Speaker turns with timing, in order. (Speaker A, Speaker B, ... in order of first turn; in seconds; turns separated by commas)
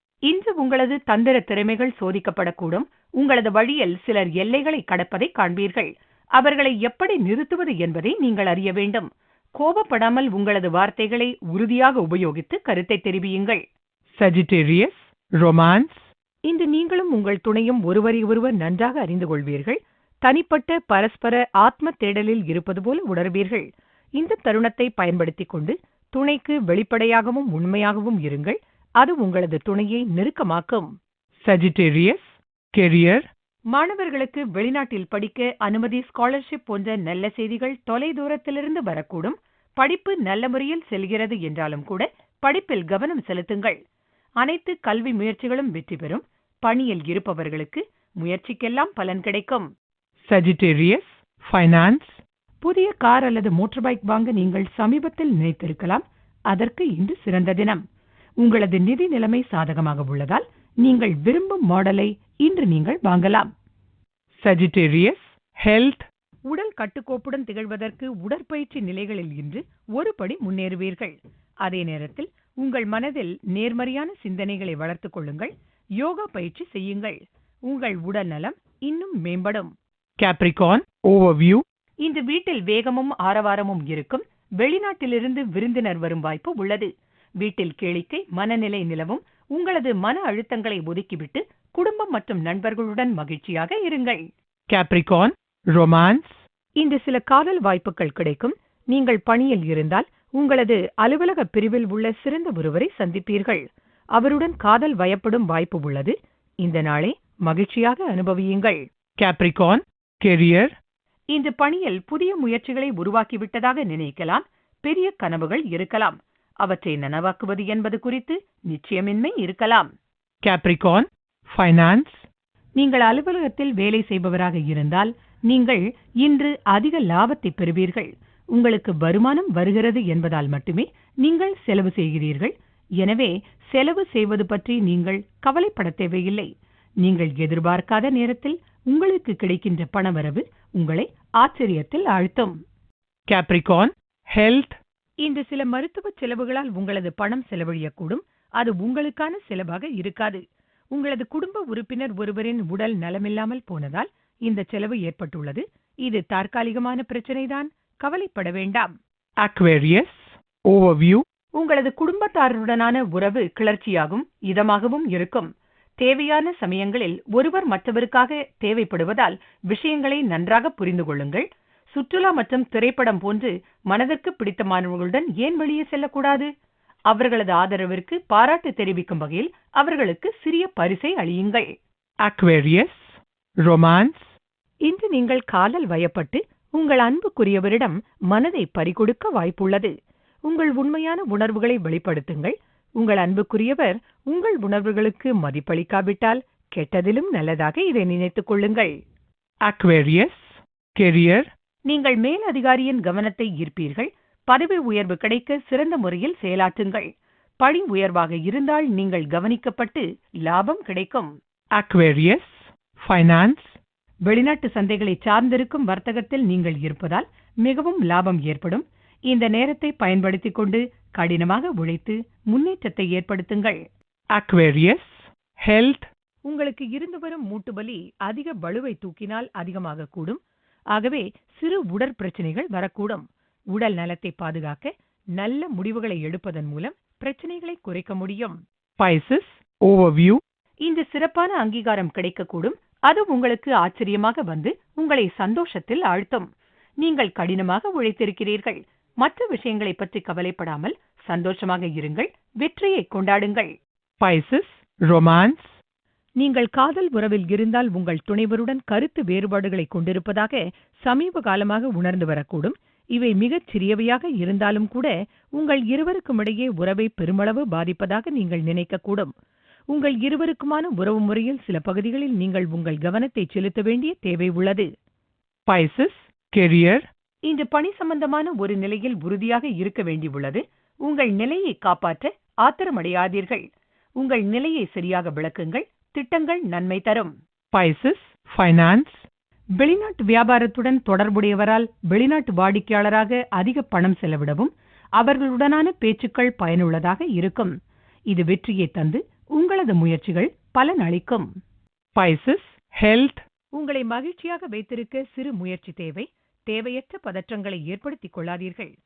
Speaker A: 0.3-13.6, Speaker B: 14.2-16.0, Speaker A: 16.5-30.9, Speaker B: 31.5-33.3, Speaker A: 33.7-43.8, Speaker A: 44.4-49.7, Speaker B: 50.3-52.2, Speaker A: 51.6-51.9, Speaker A: 52.6-57.8, Speaker A: 58.4-63.5, Speaker B: 64.4-66.0, Speaker A: 66.5-79.7, Speaker B: 80.2-81.6, Speaker A: 82.0-86.9, Speaker A: 87.4-94.2, Speaker B: 94.7-96.3, Speaker A: 96.8-103.6, Speaker A: 104.2-108.8, Speaker B: 109.2-110.7, Speaker A: 111.3-119.9, Speaker B: 120.5-122.2, Speaker A: 122.8-136.5, Speaker A: 137.0-142.6, Speaker B: 143.3-144.7, Speaker A: 145.2-150.4, Speaker A: 150.9-158.9, Speaker B: 159.4-161.2, Speaker A: 161.6-165.5, Speaker A: 166.0-176.5, Speaker A: 177.1-181.7, Speaker B: 182.2-183.1, Speaker B: 183.7-184.3, Speaker A: 184.9-189.9, Speaker A: 190.5-198.9, Speaker B: 199.7-201.5, Speaker A: 201.9-207.1, Speaker A: 207.6-211.3, Speaker B: 211.8-213.8, Speaker A: 214.3-223.8, Speaker B: 224.4-226.1, Speaker A: 226.5-230.4, Speaker A: 230.9-238.6, Speaker B: 239.0-240.4, Speaker A: 240.8-246.5, Speaker A: 247.0-253.7, Speaker B: 254.2-255.7, Speaker A: 256.4-269.3, Speaker A: 269.9-274.9, Speaker B: 275.7-277.1, Speaker A: 277.5-283.6, Speaker A: 284.2-287.3, Speaker B: 287.8-289.2, Speaker A: 289.8-297.8, Speaker A: 298.3-301.5, Speaker B: 302.2-303.4, Speaker A: 303.8-308.9